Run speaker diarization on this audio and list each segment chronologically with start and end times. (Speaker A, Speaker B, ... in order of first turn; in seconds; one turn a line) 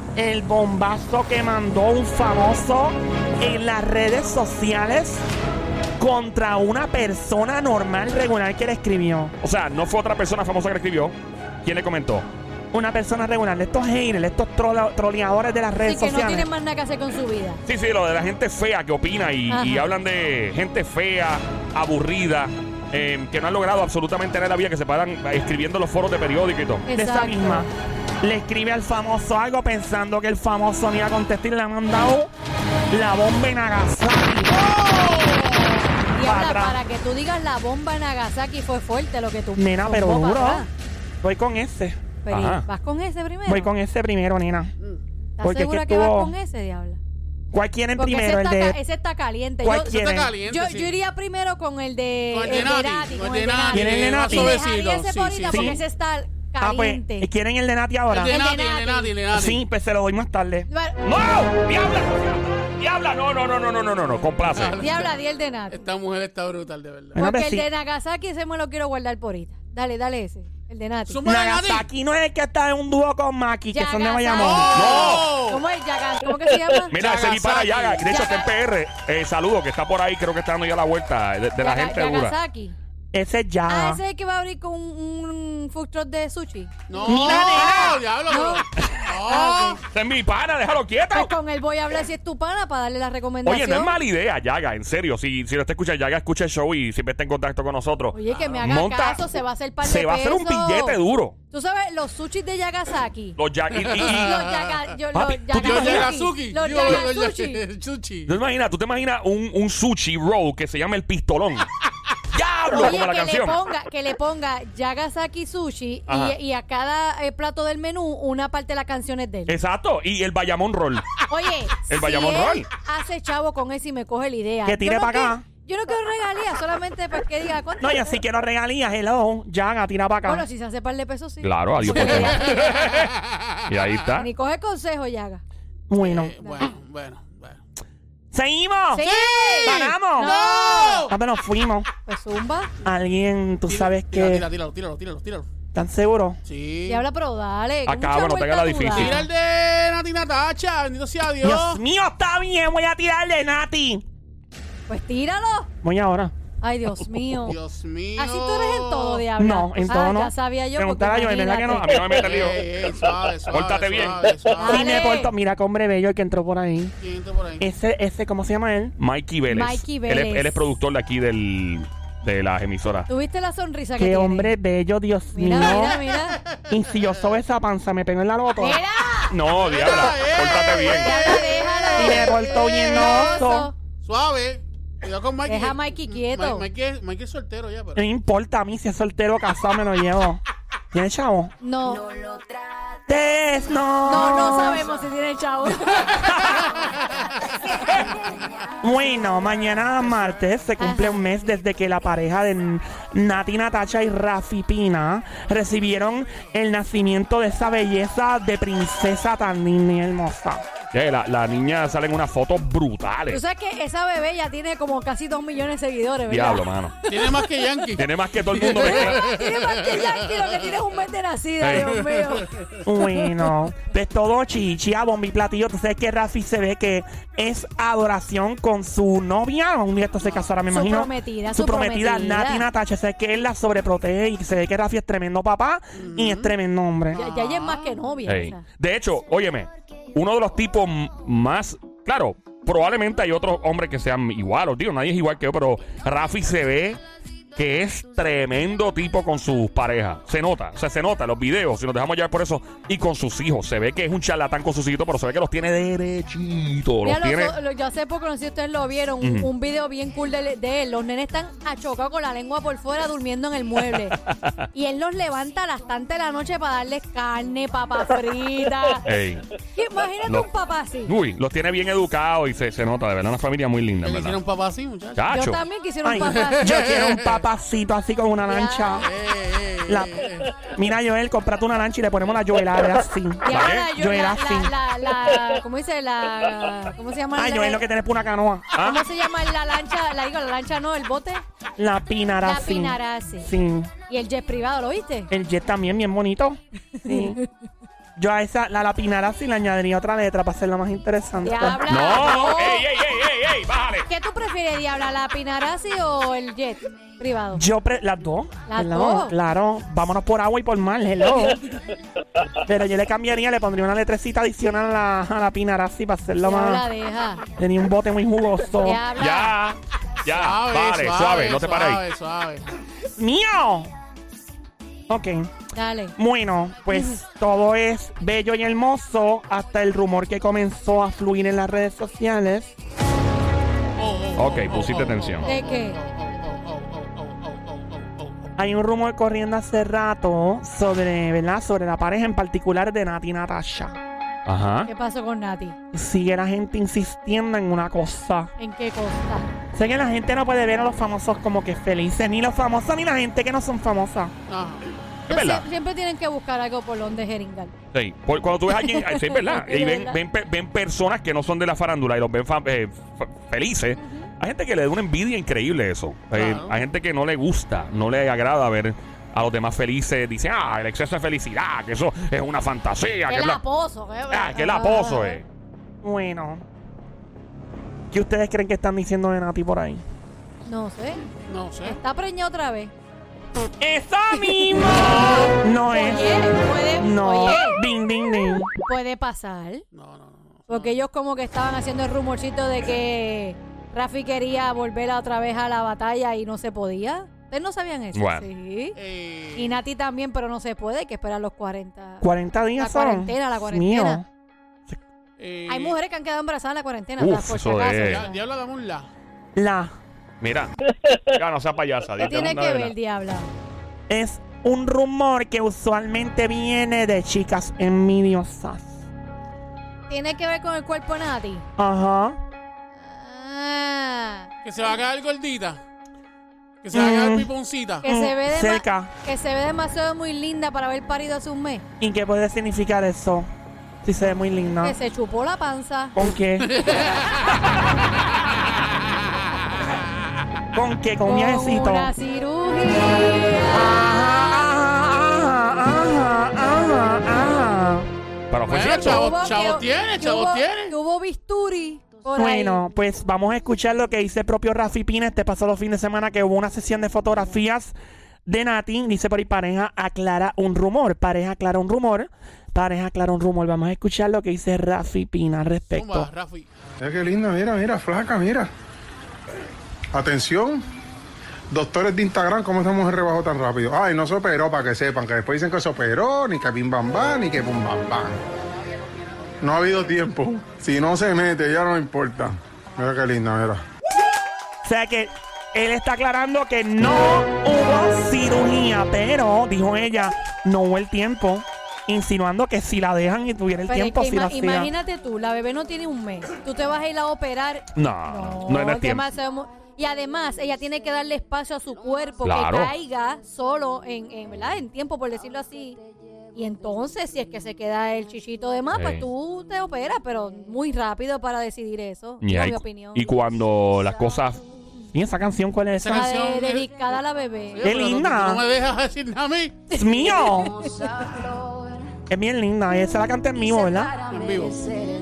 Speaker A: 0.1-5.3
Speaker A: 6.0-9.3
Speaker B: 9.4-12.2
Speaker A: 12.7-16.5
Speaker C: 15.8-17.6
Speaker B: 17.6-26.8
Speaker C: 19.5-19.9
Speaker C: 26.9-27.7
Speaker A: 26.9-32.3
Speaker A: 32.9-34.6
Speaker D: 34.5-35.7
Speaker C: 35.6-40.7
Speaker A: 36.2-36.8
Speaker A: 39.5-40.6
Speaker A: 41.2-42.0
Speaker C: 42.2-43.7
Speaker B: 42.3-42.6
Speaker A: 43.5-44.7
Speaker C: 45.4-47.0
Speaker A: 45.4-46.3
Speaker A: 47.5-48.8
Speaker C: 48.0-57.3
Speaker A: 49.6-50.3
Speaker D: 49.9-51.0
Speaker D: 52.3-55.8
Speaker A: 53.7-54.6
Speaker A: 55.5-55.8
Speaker A: 56.6-58.3
Speaker D: 58.1-59.6
Speaker C: 58.1-59.1
Speaker A: 59.3-60.7
Speaker C: 60.7-61.0
Speaker B: 61.0-64.9
Speaker D: 64.5-65.1
Speaker C: 64.8-65.8
Speaker D: 65.7-67.2
Speaker A: 67.1-67.7
Speaker C: 67.2-71.2
Speaker D: 71.1-71.9
Speaker A: 71.2-74.7
Speaker C: 73.7-77.0
Speaker D: 74.3-75.6
Speaker B: 74.7-75.3
Speaker B: 76.9-82.3
Speaker D: 76.9-78.1
Speaker C: 78.0-78.5
Speaker C: 81.6-82.8
Speaker A: 83.1-84.0
Speaker C: 83.7-89.8
Speaker D: 86.9-89.8
Speaker A: 87.0-88.0
Speaker B: 89.9-91.3
Speaker C: 91.1-93.9
Speaker B: 93.4-99.3
Speaker C: 98.1-101.0
Speaker B: 99.8-101.3
Speaker C: 101.5-103.4
Speaker B: 103.4-104.5
Speaker D: 103.8-104.8
Speaker C: 104.0-107.6
Speaker B: 105.1-106.2
Speaker D: 105.5-108.3
Speaker B: 108.3-111.7
Speaker B: 112.3-113.6
Speaker C: 112.8-119.5
Speaker B: 116.1-116.3
Speaker B: 119.5-121.1
Speaker C: 121.3-128.2
Speaker B: 121.9-122.7
Speaker A: 124.6-125.5
Speaker A: 127.8-130.4
Speaker C: 130.2-132.9
Speaker B: 131.4-133.1
Speaker D: 131.9-133.7
Speaker B: 133.7-134.3
Speaker C: 134.1-135.4
Speaker A: 135.9-136.3
Speaker D: 136.0-137.6
Speaker C: 136.4-136.7
Speaker A: 138.3-139.1
Speaker C: 138.9-141.1
Speaker D: 139.0-141.1
Speaker A: 139.6-140.4
Speaker A: 141.0-141.9
Speaker C: 142.1-142.7
Speaker A: 142.8-144.4
Speaker D: 143.7-145.5
Speaker A: 145.7-146.4
Speaker D: 146.4-147.0
Speaker C: 146.9-149.2
Speaker B: 147.9-149.2
Speaker D: 148.9-151.8
Speaker A: 151.4-154.0
Speaker C: 154.9-155.7
Speaker A: 155.8-156.3
Speaker C: 156.6-157.6
Speaker D: 157.4-159.2
Speaker C: 158.2-162.1
Speaker A: 159.4-161.9
Speaker B: 161.7-164.8
Speaker D: 162.1-164.8
Speaker C: 164.6-165.3
Speaker A: 164.7-166.9
Speaker D: 167.0-167.7
Speaker A: 167.6-168.9
Speaker B: 169.0-173.1
Speaker C: 169.5-170.6
Speaker C: 173.1-174.5
Speaker A: 174.0-176.0
Speaker C: 175.3-176.4
Speaker D: 176.1-176.6
Speaker A: 176.7-178.8
Speaker C: 178.6-179.3
Speaker B: 179.3-181.2
Speaker D: 179.5-183.4
Speaker C: 181.0-183.7
Speaker A: 181.9-183.7
Speaker D: 184.0-188.0
Speaker C: 185.4-186.7
Speaker A: 187.9-190.4
Speaker A: 190.9-191.5
Speaker C: 191.6-192.2
Speaker A: 193.1-194.9
Speaker C: 194.0-196.7
Speaker D: 196.6-197.1
Speaker A: 198.8-210.6
Speaker C: 200.8-201.2
Speaker B: 210.9-213.4
Speaker C: 213.3-217.5
Speaker B: 216.3-217.0
Speaker D: 217.1-220.5
Speaker B: 217.9-219.2
Speaker C: 218.8-223.5
Speaker B: 221.6-221.9
Speaker D: 221.8-222.6
Speaker A: 222.8-237.2
Speaker C: 230.7-232.7
Speaker D: 235.9-236.5
Speaker D: 237.1-237.9
Speaker C: 237.1-238.6
Speaker B: 238.3-247.0
Speaker B: 247.5-257.5
Speaker C: 257.0-264.2
Speaker B: 259.2-259.5
Speaker B: 263.9-264.6
Speaker C: 264.7-269.1
Speaker B: 269.0-269.4
Speaker C: 269.7-271.1
Speaker B: 271.1-274.4
Speaker D: 274.0-275.3
Speaker B: 275.1-275.6
Speaker C: 275.3-276.9
Speaker A: 276.0-279.1
Speaker D: 276.2-277.4
Speaker C: 278.4-279.1
Speaker D: 279.0-280.5
Speaker A: 279.9-284.7
Speaker C: 283.4-287.8
Speaker B: 283.5-283.9
Speaker A: 287.4-288.9
Speaker C: 288.8-291.4
Speaker A: 291.8-293.9
Speaker C: 292.4-293.5
Speaker C: 294.1-295.3
Speaker A: 295.3-297.4
Speaker C: 297.0-297.4
Speaker A: 298.2-301.9
Speaker C: 301.4-302.9
Speaker B: 301.9-304.1
Speaker C: 304.1-307.6
Speaker A: 307.5-311.6
Speaker C: 308.7-309.3
Speaker A: 312.6-316.9
Speaker C: 316.4-317.4
Speaker A: 317.6-319.0
Speaker C: 318.8-319.6
Speaker B: 319.2-322.0
Speaker D: 320.3-322.6
Speaker A: 323.2-323.9
Speaker A: 325.1-325.5
Speaker C: 325.7-326.1
Speaker A: 326.1-332.7
Speaker C: 326.9-327.2
Speaker D: 334.0-338.5
Speaker B: 334.4-335.5
Speaker C: 335.4-336.0
Speaker A: 338.6-344.0
Speaker B: 344.4-344.9
Speaker C: 344.9-345.8
Speaker A: 345.9-348.5
Speaker C: 348.6-349.5
Speaker A: 349.7-354.3
Speaker D: 354.5-354.8
Speaker B: 355.3-355.6
Speaker C: 355.3-357.7
Speaker B: 357.9-373.6
Speaker C: 358.7-360.2
Speaker C: 364.0-364.3
Speaker D: 366.3-366.8
Speaker C: 373.3-375.4
Speaker B: 374.3-375.4
Speaker A: 376.0-376.6
Speaker A: 378.1-380.0
Speaker C: 380.6-381.3
Speaker D: 381.5-382.0
Speaker C: 381.8-382.9
Speaker A: 383.8-386.4
Speaker C: 384.3-387.8
Speaker A: 387.0-388.7
Speaker C: 388.8-389.8
Speaker D: 389.9-391.0
Speaker C: 390.7-399.0
Speaker B: 398.1-398.5
Speaker D: 398.9-399.8
Speaker C: 399.5-404.2
Speaker A: 402.2-404.2
Speaker D: 405.4-406.0
Speaker C: 405.7-408.4
Speaker B: 407.2-408.2
Speaker D: 408.0-409.1
Speaker A: 409.6-409.9
Speaker B: 410.4-412.9
Speaker C: 412.2-413.5
Speaker A: 414.1-419.0
Speaker C: 420.1-421.6
Speaker A: 421.8-422.4
Speaker C: 422.9-424.5
Speaker D: 424.6-425.8
Speaker D: 426.8-428.0
Speaker A: 426.9-427.5
Speaker C: 428.0-431.8
Speaker A: 428.0-429.1
Speaker A: 432.0-433.5
Speaker A: 434.0-434.9
Speaker C: 434.8-436.2
Speaker A: 436.1-436.9
Speaker D: 436.6-440.0
Speaker C: 436.9-437.8
Speaker A: 440.7-442.1
Speaker C: 441.2-444.0
Speaker A: 443.7-448.1
Speaker B: 448.5-449.4
Speaker D: 448.7-450.9
Speaker C: 448.9-452.8
Speaker A: 452.3-457.9
Speaker A: 458.4-466.3
Speaker D: 465.9-466.7
Speaker E: 467.0-468.7
Speaker E: 470.1-470.9
Speaker E: 471.7-478.4
Speaker E: 479.6-483.8
Speaker A: 484.8-494.9
Speaker C: 493.9-506.0
Speaker B: 497.9-499.3
Speaker B: 502.4-502.9
Speaker C: 506.5-513.3
Speaker B: 508.9-509.2
Speaker B: 512.4-514.6
Speaker A: 515.1-516.4
Speaker D: 516.0-516.9
Speaker C: 516.1-517.9
Speaker D: 517.7-519.9
Speaker A: 517.8-518.6
Speaker C: 519.9-521.4
Speaker A: 519.9-520.9
Speaker A: 522.3-524.2
Speaker D: 524.2-524.9